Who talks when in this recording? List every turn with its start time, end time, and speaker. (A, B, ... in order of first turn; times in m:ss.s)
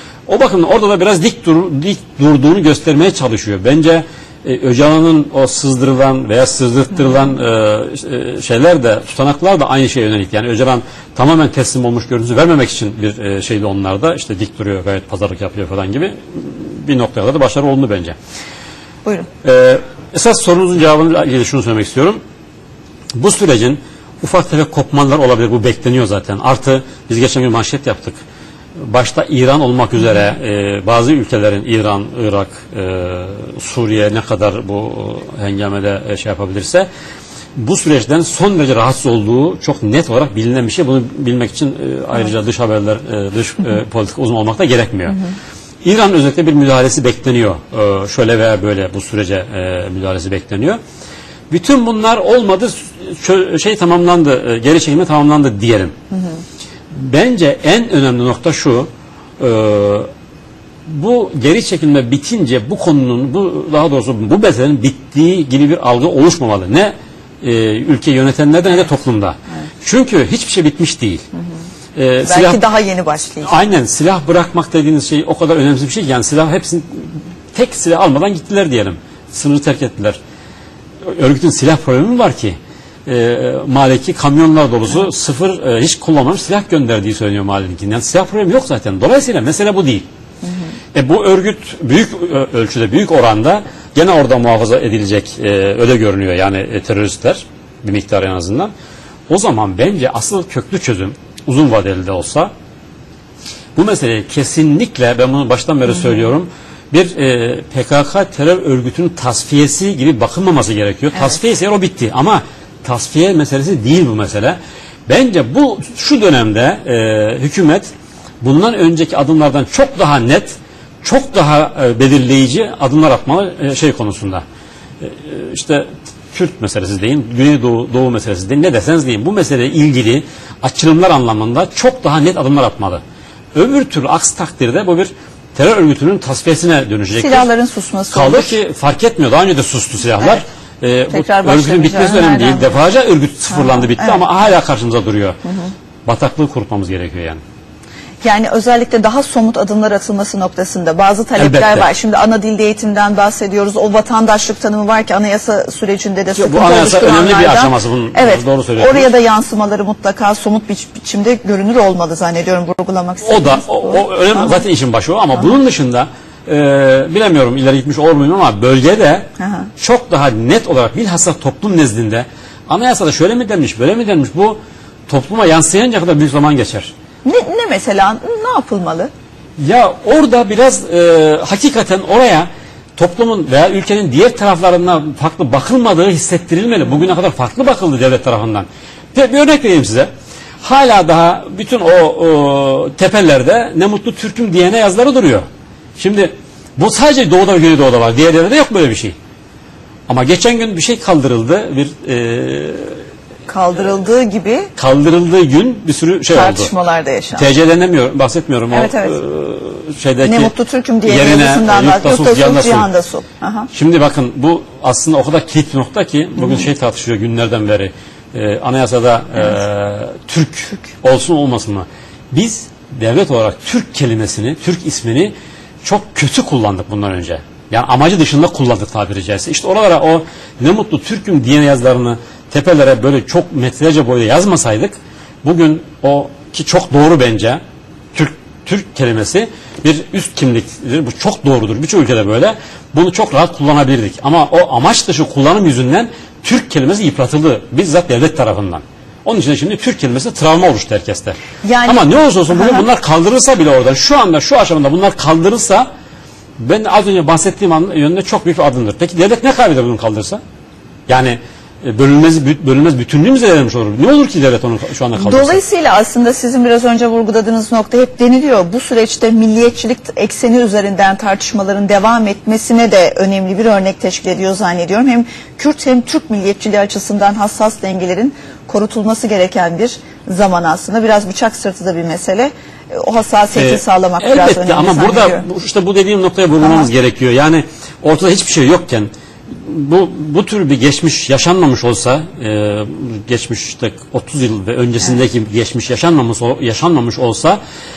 0:00.3-0:18.2 A
0:19.4-0:22.2 A
0:23.2-0:28.2 A
0:28.8-0:36.9 A
0:37.6-0:45.2 A
0:45.8-0:50.8 A
0:51.5-0:55.9 A
0:56.9-0:58.9 A
0:59.4-1:00.1 A
1:00.8-1:11.2 A
1:12.0-1:12.6 A
1:12.2-1:13.6 B
1:13.4-1:20.2 A
1:21.0-1:30.1 A
1:30.9-1:38.7 A
1:39.3-1:42.5 A
1:43.8-1:57.9 A
1:58.4-2:04.4 A
2:05.0-2:13.0 A
2:13.5-2:17.5 A
2:17.1-2:18.6 B
2:18.1-2:25.4 A
2:21.1-2:22.7 B
2:23.5-2:24.2 B
2:25.4-2:25.7 B
2:26.0-2:27.4 A
2:28.2-2:44.6 B
2:31.4-2:31.9 A
2:36.4-2:39.1 A
2:43.2-2:49.3 A
2:49.4-2:49.7 B
2:49.8-2:56.9 A
2:57.2-2:59.1 B
2:59.6-3:10.1 A
3:10.6-3:15.4 A
3:16.0-3:19.1 A
3:20.1-3:23.0 A
3:23.5-3:24.7 B
3:24.8-3:26.7 A
3:26.3-3:27.5 B
3:27.4-3:30.5 A
3:28.7-3:29.2 B
3:30.2-3:33.7 B
3:31.0-3:32.9 A
3:33.7-3:57.6 A
3:58.1-4:15.9 A
4:11.6-4:12.8 B
4:16.6-4:20.4 A
4:21.1-4:25.6 A
4:25.1-4:45.4 B
4:43.5-4:57.6 A